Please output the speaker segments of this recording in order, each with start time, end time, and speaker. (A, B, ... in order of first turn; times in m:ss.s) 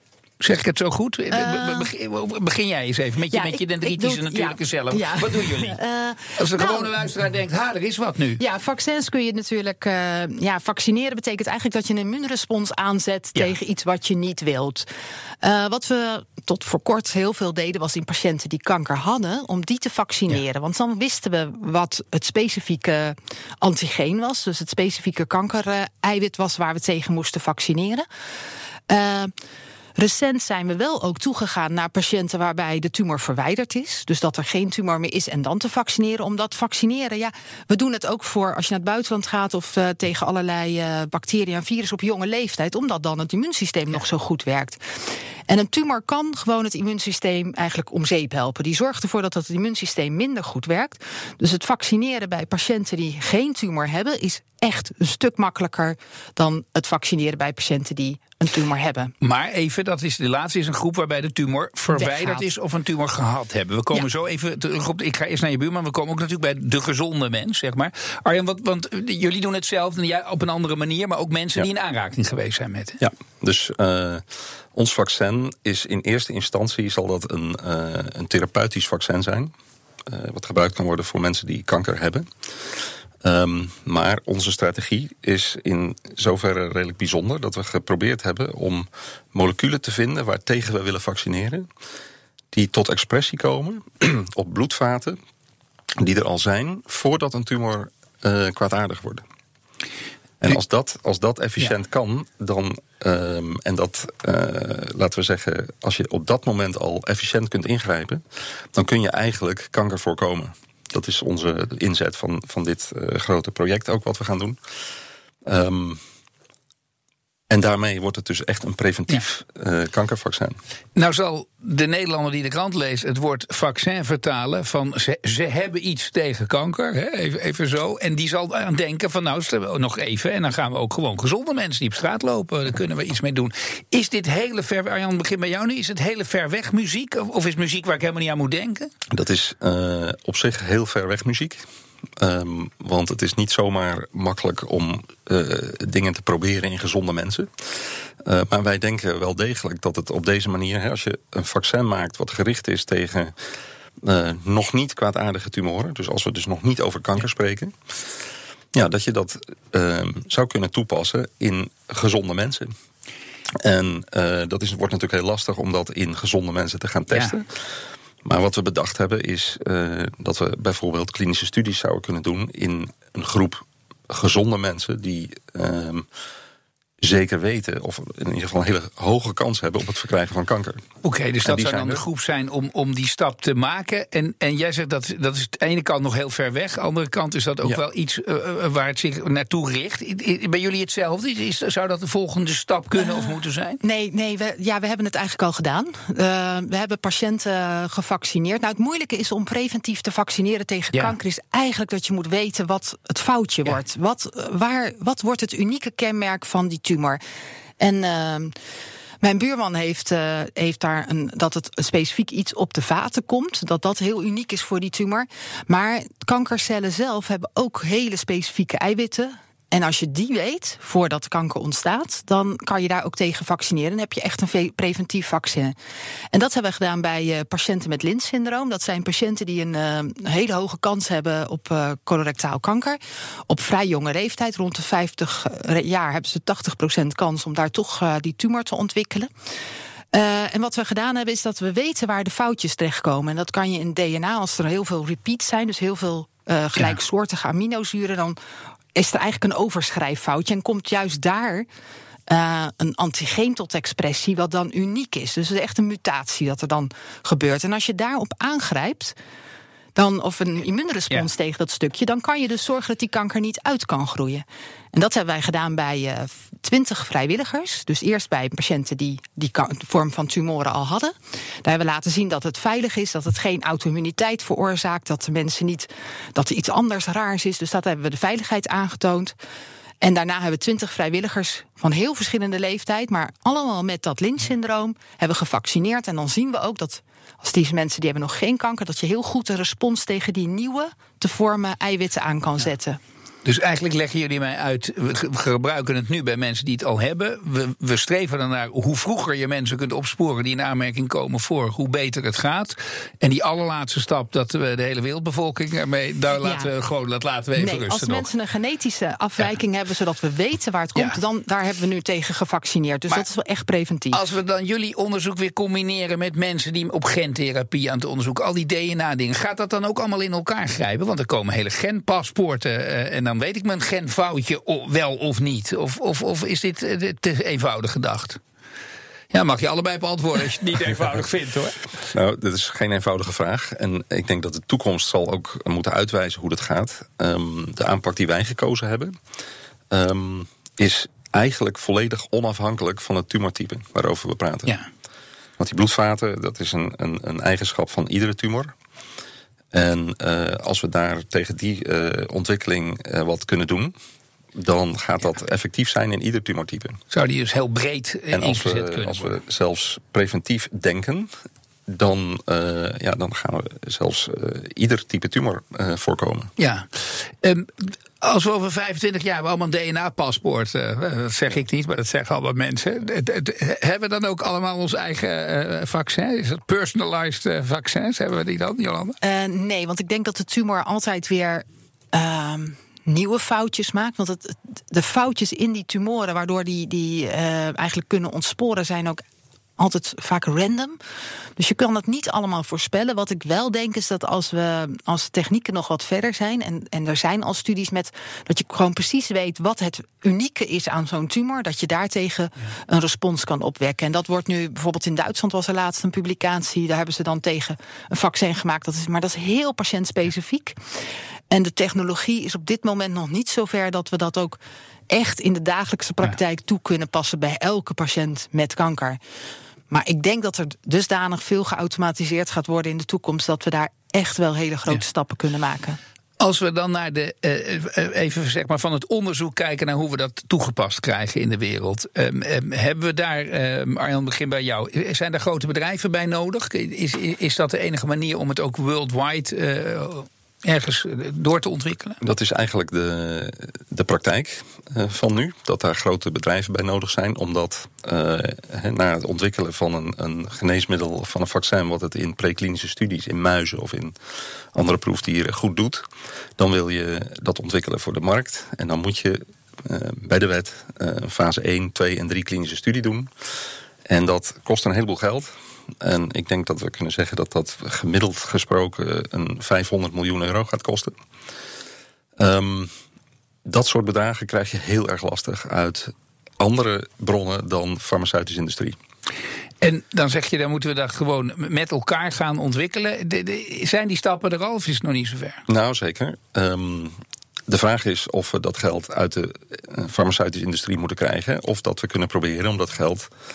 0:00.4-0:05.8 A
0:01.3-0:01.9 B
0:03.3-0:06.9 B
0:06.4-0:08.4 A
0:08.4-0:14.8 B
0:15.4-0:28.0 B
0:28.9-0:29.3 B
0:30.0-0:44.8 B
0:45.5-0:59.1 B
0:59.2-1:13.0 A
1:01.9-1:02.4 B
1:13.0-1:14.2 C
1:14.7-1:19.5 C
1:20.0-1:22.3 C
1:23.2-1:31.7 C
1:32.5-1:35.2 C
1:36.0-1:39.2 C
1:40.4-1:48.2 C
1:48.7-1:54.6 C
1:55.4-1:56.0 C
1:57.5-2:00.6 C
2:00.9-2:18.9 A
2:19.1-2:21.6 C
2:22.2-2:33.3 C
2:34.0-2:37.7 C
2:38.7-2:42.7 C
2:43.6-2:47.5 C
2:48.2-2:56.1 C
2:57.0-3:00.8 C
3:01.0-3:13.8 A
3:01.4-3:02.0 C
3:13.0-3:27.2 B
3:27.8-3:28.5 B
3:29.2-3:45.7 B
3:46.3-3:59.3 B
4:00.1-4:08.4 B
4:08.9-4:11.7 B
4:12.3-4:19.1 B
4:19.9-4:39.3 B
4:40.0-4:53.0 B
4:53.4-5:08.3 A
5:06.4-5:06.7 B
5:07.5-5:14.2 B
5:14.1-5:28.4 A
5:29.3-5:31.9 A
5:32.1-5:39.1 C
5:39.9-5:44.7 C
5:45.6-5:48.7 C
5:49.7-5:53.9 C
5:54.5-5:57.0 C
5:57.1-5:59.3 A
5:58.3-6:01.3 C
6:01.9-6:06.5 C
6:06.6-6:19.2 A
6:19.2-6:29.2 B
6:29.8-6:31.0 B
6:31.6-6:50.8 B
6:51.5-6:59.2 B
6:59.9-7:06.0 B
7:06.4-7:22.2 A
7:22.2-7:34.1 C
7:34.7-7:36.0 C
7:36.6-7:43.3 C
7:44.1-7:45.5 C
7:46.0-7:51.1 C
7:52.4-7:52.9 C
7:53.6-7:59.0 C
7:59.8-8:05.6 A
8:05.7-8:07.2 C
8:07.7-8:13.3 C